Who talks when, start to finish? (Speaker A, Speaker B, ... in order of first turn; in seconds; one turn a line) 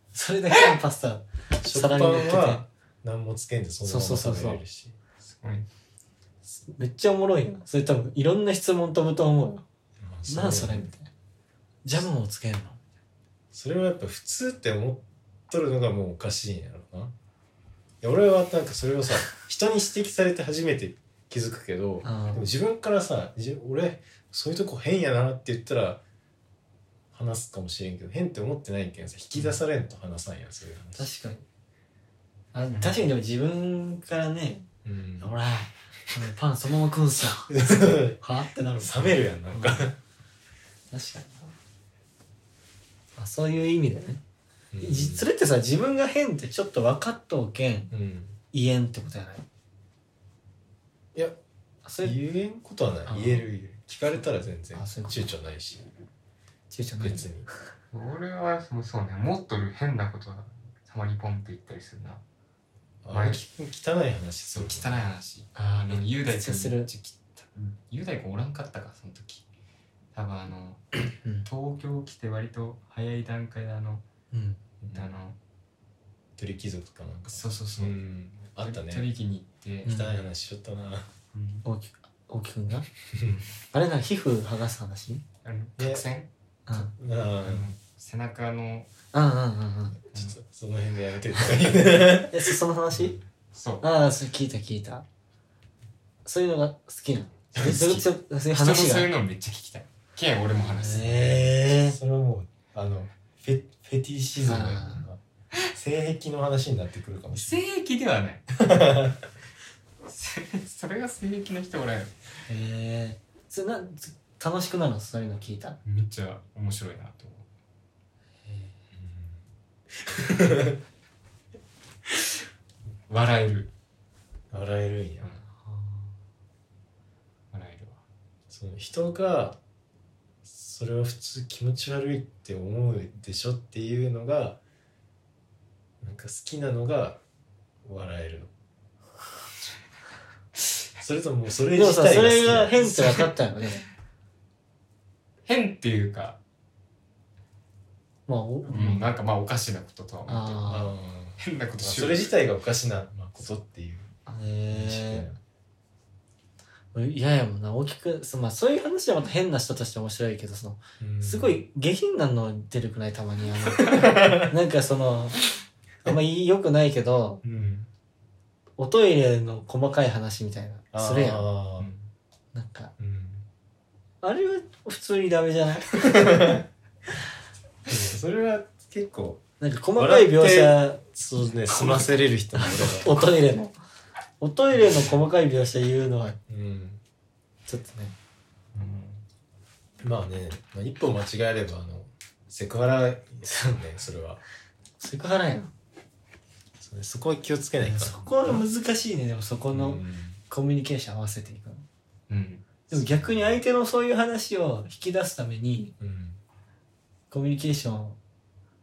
Speaker A: 0.1-2.6
Speaker B: 1.6-5.0
Speaker A: 3.8-4.6
Speaker C: 5.3-5.7
Speaker A: 6.6-9.7
Speaker B: 10.0-10.9
Speaker A: 10.3-11.1
Speaker A: 11.8-12.8
Speaker B: 13.5-17.1
Speaker B: 18.0-26.0
Speaker A: 22.0-22.5
Speaker B: 27.1-31.1
Speaker A: 31.0-31.4
Speaker A: 32.5-34.7
Speaker B: 32.8-33.1
Speaker B: 34.8-35.3
Speaker A: 35.2-39.9
Speaker B: 37.5-38.2
Speaker B: 38.8-40.0
Speaker A: 40.9-41.6
Speaker A: 43.2-44.2
Speaker B: 44.7-45.3
Speaker A: 44.8-47.9
Speaker B: 47.9-48.4
Speaker A: 48.5-49.5
Speaker A: 51.8-52.2
Speaker B: 52.0-55.9
Speaker A: 53.1-53.5
Speaker A: 54.7-55.2
Speaker A: 56.7-57.3
Speaker B: 57.0-57.5
Speaker C: 57.9-62.2
Speaker B: 63.0-65.1
Speaker C: 63.1-63.4
Speaker C: 64.5-69.4
Speaker A: 65.5-66.9
Speaker C: 70.1-74.0
Speaker A: 74.3-74.6
Speaker B: 74.8-75.1
Speaker C: 74.9-75.4
Speaker B: 76.4-79.1
Speaker C: 77.3-78.0
Speaker C: 78.6-79.9
Speaker A: 79.8-80.1
Speaker B: 79.8-81.1
Speaker C: 81.3-81.7
Speaker A: 81.7-82.9
Speaker B: 83.1-83.4
Speaker A: 83.7-85.2
Speaker C: 85.4-86.3
Speaker B: 85.8-86.0
Speaker A: 86.7-86.9
Speaker B: 86.7-87.7
Speaker C: 87.4-88.9
Speaker A: 89.1-90.0
Speaker B: 90.1-93.2
Speaker A: 92.3-93.2
Speaker C: 93.5-93.8
Speaker A: 93.8-95.0
Speaker A: 96.2-99.1
Speaker B: 97.5-98.0
Speaker C: 98.5-101.4
Speaker A: 100.6-102.0
Speaker B: 101.0-105.2
Speaker A: 104.3-105.0
Speaker B: 105.7-107.6
Speaker C: 107.3-108.6
Speaker B: 108.6-109.2
Speaker C: 110.0-112.1
Speaker A: 112.5-115.8
Speaker C: 115.8-117.5
Speaker B: 118.9-119.4
Speaker B: 120.0-120.8
Speaker C: 123.1-123.7
Speaker B: 124.5-125.3
Speaker A: 125.5-126.1
Speaker C: 127.5-128.0
Speaker B: 128.5-129.6
Speaker B: 130.4-134.6
Speaker B: 136.0-137.2
Speaker B: 137.8-138.5
Speaker B: 141.0-143.2
Speaker A: 141.7-143.8
Speaker C: 145.4-146.4
Speaker A: 148.3-149.0
Speaker C: 148.7-150.7
Speaker B: 148.7-149.0
Speaker A: 150.3-150.9
Speaker B: 150.7-154.1
Speaker C: 151.4-152.3
Speaker A: 154.3-155.3
Speaker B: 154.7-155.4
Speaker A: 156.9-165.4
Speaker B: 161.0-161.7
Speaker B: 163.8-164.5
Speaker A: 166.0-167.4
Speaker B: 167.4-167.9
Speaker A: 168.8-171.5
Speaker B: 170.9-171.9
Speaker C: 171.8-172.1
Speaker A: 172.5-172.9
Speaker B: 173.0-173.5
Speaker A: 174.2-175.9
Speaker B: 175.9-176.7
Speaker B: 177.8-179.4
Speaker A: 179.6-183.8
Speaker B: 180.0-183.2
Speaker A: 184.4-186.4
Speaker B: 186.5-187.0
Speaker A: 187.7-188.2
Speaker C: 188.7-189.2
Speaker B: 190.0-194.4
Speaker A: 195.0-195.7
Speaker B: 196.8-198.7
Speaker A: 197.8-201.8
Speaker B: 199.7-200.4
Speaker C: 202.3-202.7
Speaker A: 202.9-205.9
Speaker B: 202.9-203.6
Speaker B: 206.0-206.4
Speaker A: 207.3-208.2